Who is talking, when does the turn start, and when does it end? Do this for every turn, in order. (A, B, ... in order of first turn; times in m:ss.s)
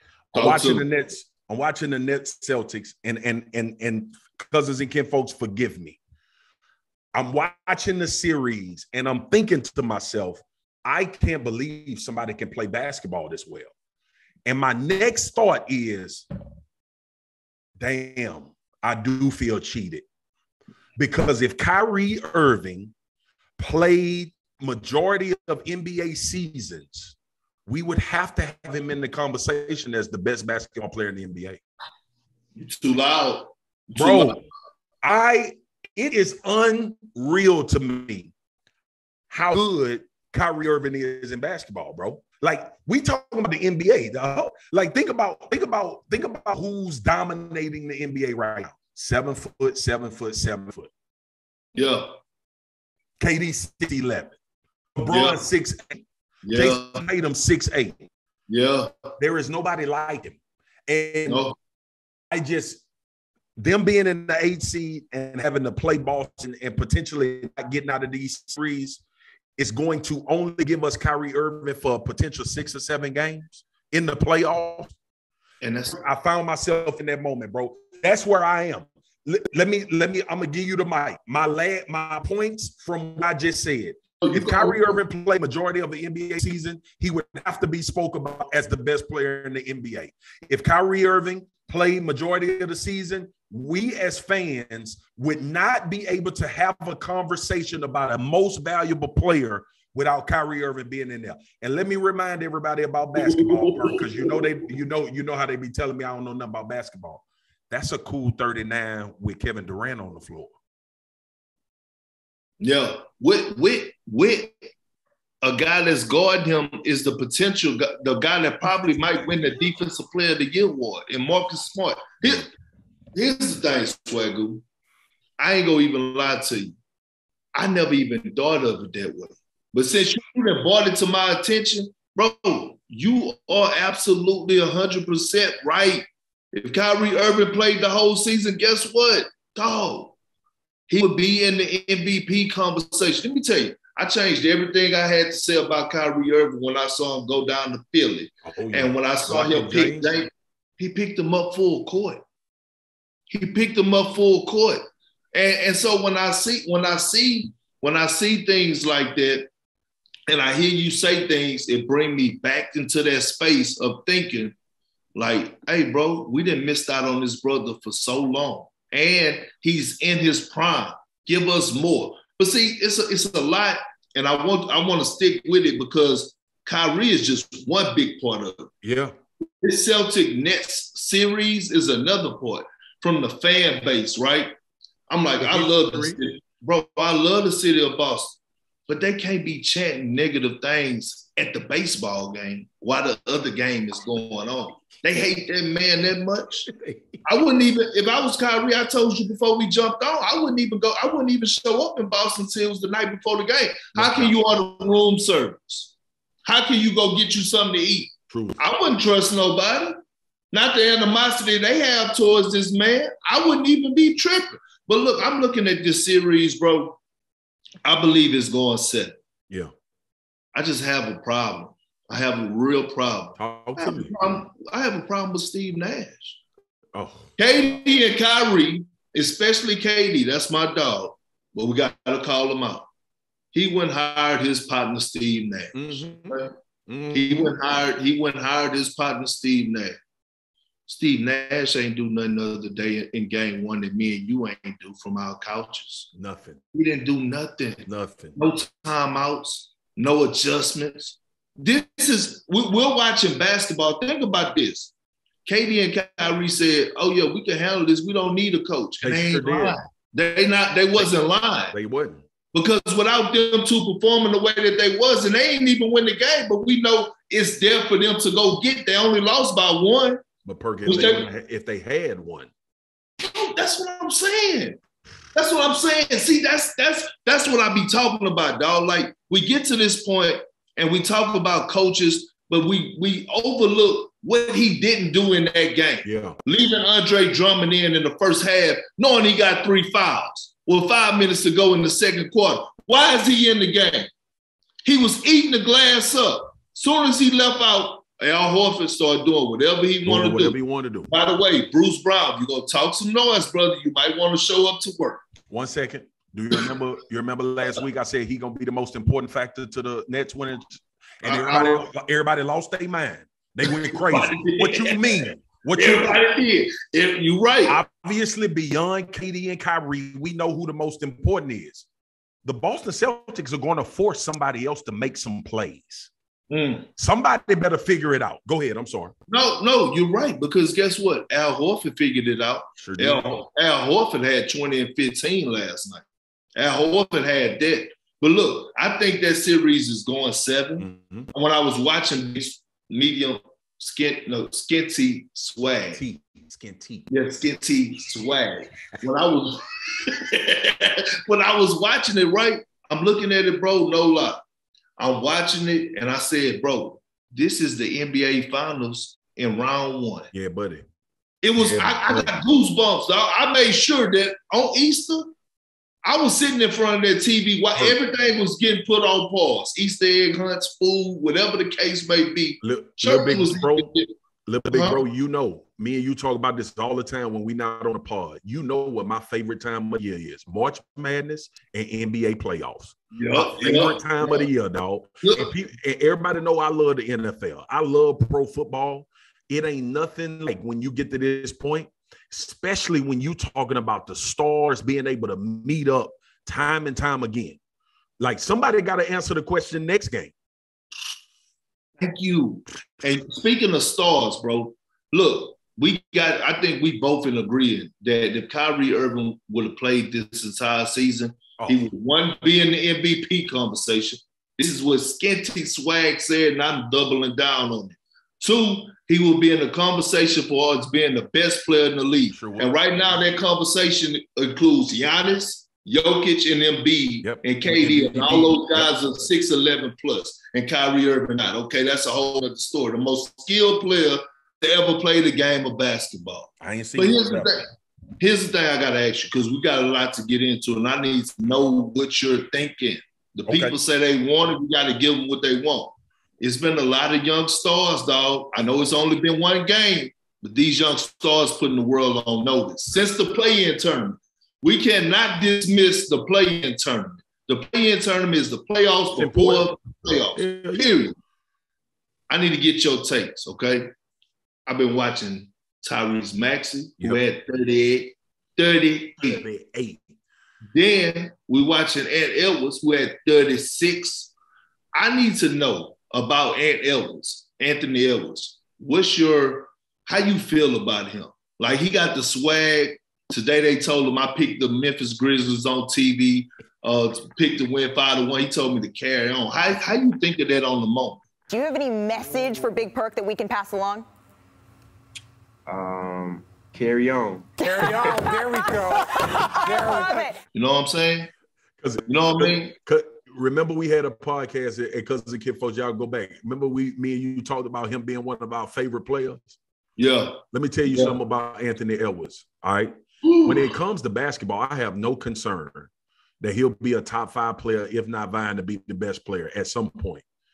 0:00.3-0:00.8 A
0:00.3-0:06.0 B
0:07.1-0:13.7 B
0:14.4-0:16.2 B
0:17.8-0:20.0 B
0:21.0-0:22.9 B
0:23.6-0:27.1 B
0:27.7-0:31.6 B
0:32.5-0:34.4 A
0:34.0-0:34.4 B
0:35.0-0:38.3 B
0:39.3-0:50.9 B
0:51.7-0:52.1 A
0:53.2-0:54.3 B
0:54.9-0:58.1 B
0:55.0-0:55.4 A
0:56.4-0:57.0 A
0:58.5-0:59.1 A
0:59.2-1:01.5 B
1:01.3-1:01.5 A
1:02.3-1:02.8 B
1:03.6-1:09.0 B
1:09.6-1:14.9 B
1:15.6-1:16.0 A
1:15.9-1:50.5 B
1:24.2-1:25.0 A
1:43.2-1:44.4 A
1:52.6-1:54.6 A
1:55.4-2:02.5 A
2:03.1-2:04.6 A
2:05.4-2:06.8 A
2:07.5-2:20.1 A
2:20.9-2:32.2 A
2:28.4-2:30.1 B
2:33.3-2:39.5 A
2:40.3-2:44.5 A
2:45.1-2:58.7 A
2:58.8-2:59.1 B
2:59.6-3:04.5 A
3:05.1-3:16.7 A
3:05.4-3:06.2 B
3:16.7-3:17.2 B
3:17.2-3:25.9 A
3:23.9-3:24.3 B
3:26.4-3:30.0 A
3:28.3-3:28.6 B
3:30.5-3:37.0 A
3:37.8-3:39.2 A
3:40.5-3:46.4 A
3:43.4-3:44.3 B
3:46.9-3:47.4 B
3:47.4-3:52.8 A
3:53.5-3:56.5 A
3:55.7-3:57.5 B
3:57.1-4:00.0 A
4:00.9-4:06.1 A
4:06.1-4:06.6 B
4:06.7-4:14.9 A
4:07.8-4:08.4 B
4:15.4-4:21.7 A
4:19.0-4:19.8 B
4:21.7-4:22.2 B
4:22.5-4:30.2 A
4:30.4-4:32.5 B
4:30.8-4:31.3 A
4:33.2-4:34.8 A
4:35.3-4:54.1 A
4:46.0-4:46.4 B
4:54.8-5:00.6 A
5:00.0-5:01.1 B
5:01.1-5:05.2 A
5:05.5-5:16.2 B
5:11.2-5:11.9 A
5:13.6-5:17.8 A
5:17.7-5:21.8 B
5:22.4-5:26.1 B
5:26.5-5:26.9 A
5:27.0-5:29.1 B
5:29.3-5:36.0 A
5:32.8-5:33.4 B
5:36.6-5:46.0 A
5:40.8-5:41.3 B
5:45.9-5:47.1 B
5:47.1-5:54.4 A
5:55.0-6:00.3 A
6:00.3-6:00.8 B
6:01.4-6:05.3 A
6:01.6-6:02.4 B
6:06.0-6:14.1 A
6:12.6-6:13.9 B
6:14.4-6:37.6 B
6:14.7-6:15.0 A
6:23.1-6:24.5 A
6:38.2-6:40.3 B
6:42.0-7:17.7 A
6:51.6-6:51.8 B
7:02.3-7:03.2 B
7:07.2-7:08.9 B
7:16.6-7:17.6 B
7:18.2-7:41.1 A
7:23.5-7:23.8 B
7:39.2-7:41.0 B
7:42.3-7:43.9 A
7:44.6-7:49.4 A
7:49.2-7:50.0 B
7:50.7-7:54.3 A
7:54.9-8:11.2 A
8:11.5-8:14.0 C
8:15.7-8:18.3 D
8:17.6-8:20.3 E
8:19.3-8:20.4 C
8:20.5-8:21.3 A
8:21.8-8:29.6 B
8:22.1-8:22.7 A
8:30.0-8:31.1 A
8:30.5-8:32.9 B
8:33.2-8:33.7 A
8:33.4-8:35.9 B
8:36.4-8:40.2 B